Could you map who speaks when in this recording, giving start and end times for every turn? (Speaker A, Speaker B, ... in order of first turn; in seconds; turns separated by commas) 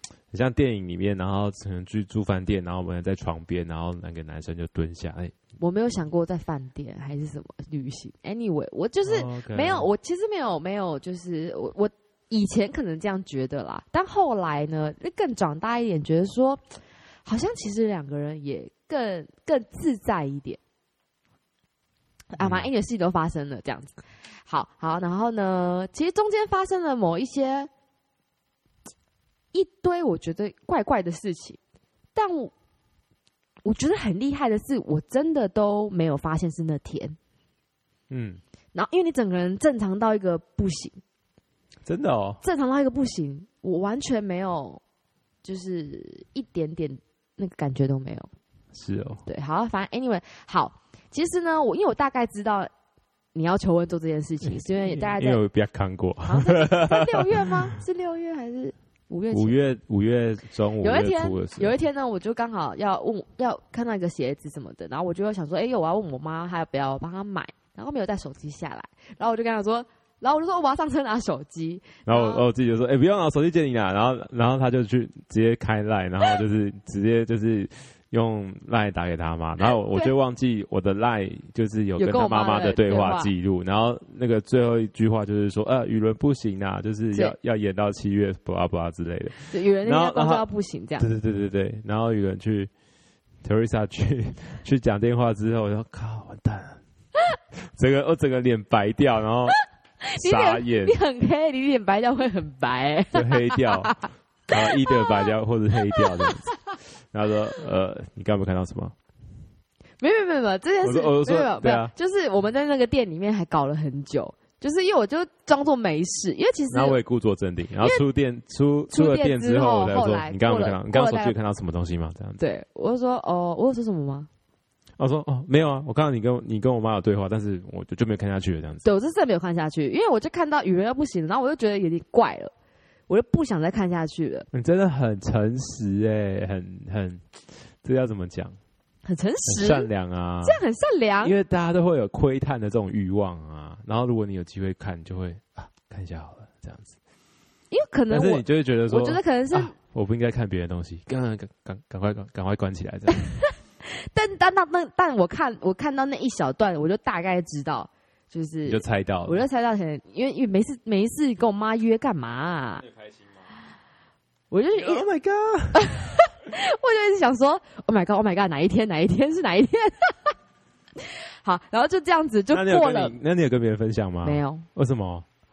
Speaker A: 0.3-5.3, Speaker B: 5.6-16.6, Speaker A: 9.1-9.9, Speaker B: 17.2-20.6, Speaker B: 22.3-23.9, Speaker A: 22.4-22.7, Speaker B: 24.4-27.7, Speaker B: 29.5-31.6, Speaker B: 32.1-32.5, Speaker B: 33.6-37.2, Speaker A: 38.1-38.4, Speaker B: 38.7-41.0, Speaker A: 41.8-42.4, Speaker B: 42.4-44.8, Speaker B: 45.4-48.3, Speaker A: 48.7-49.2, Speaker B: 49.2-52.7, Speaker B: 53.3-55.4, Speaker A: 54.8-57.7, Speaker B: 56.2-59.6, Speaker A: 59.3-61.7, Speaker B: 60.8-72.5, Speaker A: 72.0-90.5, Speaker B: 79.7-80.1, Speaker B: 82.0-83.3, Speaker B: 89.5-91.1, Speaker A: 91.0-92.7, Speaker A: 93.4-96.8, Speaker A: 97.6-99.5, Speaker B: 100.1-105.3, Speaker A: 100.2-101.0, Speaker A: 103.1-106.5, Speaker B: 105.9-106.3, Speaker A: 107.1-108.9, Speaker B: 110.0-117.0, Speaker A: 110.8-111.9, Speaker A: 116.7-122.4, Speaker B: 118.9-121.3, Speaker B: 122.4-124.3, Speaker A: 125.0-128.8, Speaker B: 128.8-132.5, Speaker B: 133.1-134.5, Speaker A: 134.5-138.6, Speaker B: 139.0-139.9, Speaker A: 139.5-140.6, Speaker B: 140.4-141.3, Speaker A: 141.2-146.9, Speaker B: 147.7-149.7, Speaker A: 148.1-153.2, Speaker B: 153.1-162.9, Speaker A: 158.7-159.4, Speaker B: 164.5-165.0, Speaker A: 164.8-165.9, Speaker B: 165.7-170.3, Speaker B: 171.0-173.2, Speaker A: 172.5-175.2, Speaker B: 174.2-174.7